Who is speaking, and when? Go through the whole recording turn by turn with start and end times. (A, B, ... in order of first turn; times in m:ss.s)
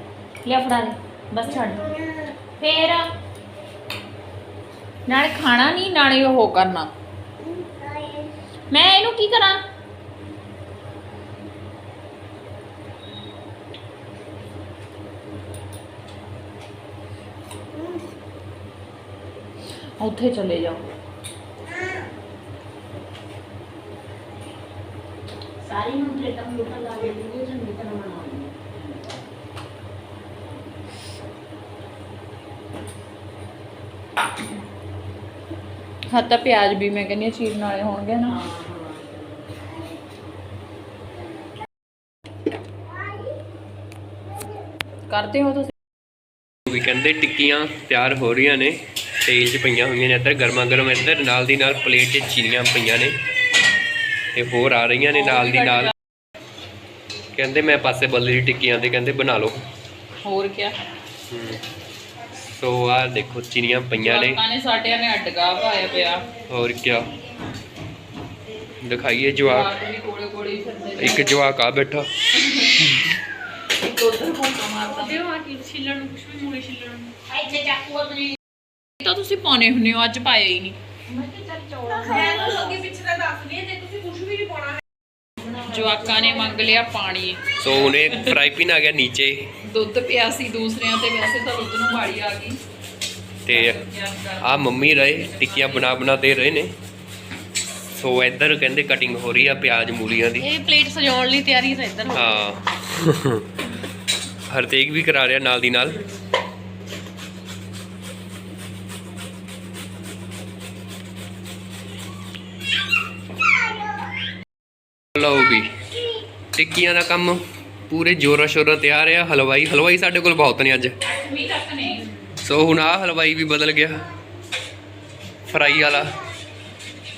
0:00.4-0:01.9 A
0:02.6-0:03.1 A
0:05.1-0:06.9 A
0:07.4-0:08.3 B
0:08.7-0:09.6 A
0:20.0-0:20.8 A
0:25.6-0:29.2 C
0:36.1-0:38.4 A
0:38.3-0:39.1 C
0:45.1-0:45.7 A
0:46.7-0:53.2 D
0:54.3-0:55.9 D
0:55.1-0:55.9 A
0:57.3-0:59.6 D
1:00.2-1:00.8 A
1:01.3-1:01.6 D
1:02.4-1:04.4 D
1:03.9-1:06.3 A
1:06.5-1:07.1 D
1:08.8-1:09.7 D
1:09.4-1:11.3 A
1:11.0-1:12.1 D
1:12.4-1:12.9 A
1:13.8-1:15.2 A
1:14.9-1:17.1 B
1:17.3-1:18.3 C
1:19.0-1:20.8 A
1:21.9-1:24.8 B
1:22.0-1:22.8 A
1:25.6-1:28.0 A
1:27.6-1:29.5 D
1:29.6-1:32.6 A
1:33.4-1:33.8 D
1:33.5-1:36.0 A
1:34.4-1:36.7 D
1:37.9-1:40.5 D
1:40.4-1:42.3 B
1:42.1-1:43.4 D
1:44.5-1:46.0 D
1:55.1-1:55.7 D
1:56.5-2:01.0 D
2:01.0-2:02.1 A
2:02.4-2:04.1 D
2:05.5-2:06.2 D